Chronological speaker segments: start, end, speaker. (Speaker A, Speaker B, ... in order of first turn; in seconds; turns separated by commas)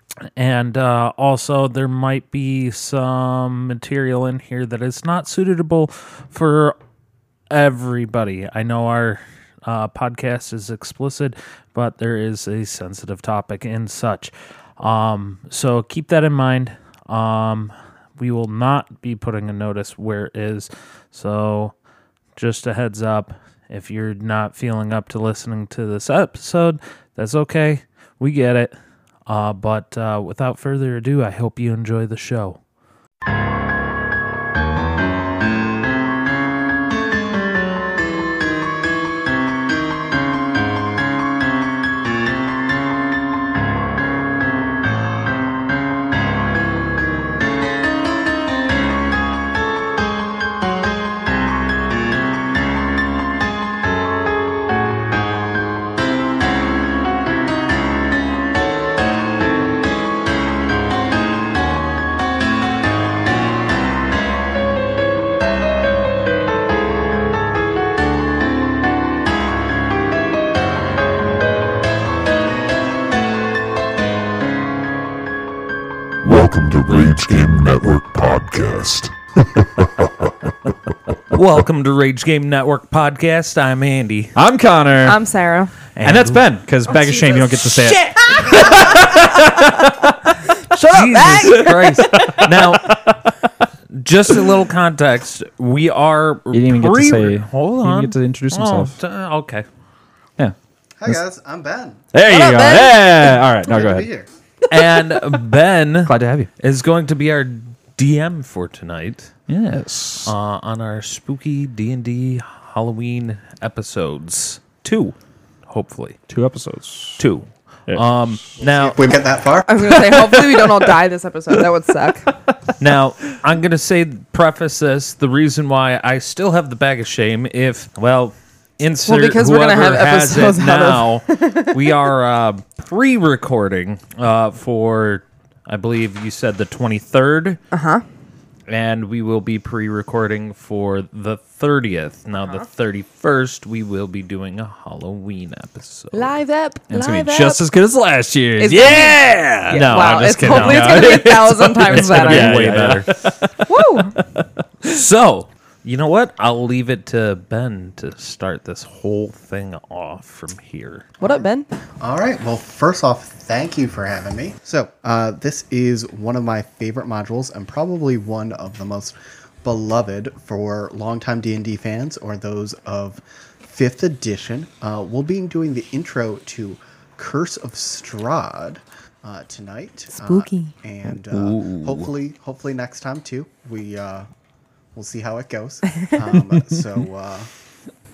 Speaker A: 0.3-6.8, Speaker A: 7.5-21.7, Speaker A: 22.4-28.7, Speaker A: 29.2-32.6, Speaker B: 76.2-80.1, Speaker A: 81.3-84.4, Speaker C: 84.3-85.2, Speaker D: 85.0-85.7, Speaker A: 86.0-86.5, Speaker C: 86.0-90.3, Speaker D: 86.9-89.4, Speaker D: 90.7-92.4, Speaker A: 90.9-93.0, Speaker C: 91.4-93.3, Speaker A: 93.9-99.7, Speaker C: 96.5-98.9, Speaker C: 100.4-101.2, Speaker E: 101.0-102.0, Speaker C: 102.1-104.1, Speaker D: 102.2-103.5, Speaker E: 103.7-104.3, Speaker A: 104.7-109.4, Speaker C: 106.1-106.5, Speaker C: 109.5-110.3, Speaker A: 110.2-115.2, Speaker A: 115.7-116.2, Speaker C: 116.3-117.2, Speaker A: 117.2-119.1, Speaker C: 117.9-118.4, Speaker E: 118.6-120.1, Speaker D: 119.7-122.3, Speaker A: 122.8-137.6, Speaker D: 129.1-131.8, Speaker D: 137.7-138.1, Speaker A: 138.7-146.3, Speaker D: 146.1-147.6, Speaker C: 146.9-154.9, Speaker D: 148.6-152.9, Speaker A: 149.7-151.2, Speaker A: 151.9-153.1, Speaker D: 153.7-154.2, Speaker A: 154.8-161.1, Speaker D: 161.2-161.7, Speaker E: 161.2-161.5, Speaker E: 162.0-184.3, Speaker D: 180.2-180.7, Speaker A: 181.3-182.1, Speaker E: 184.9-187.5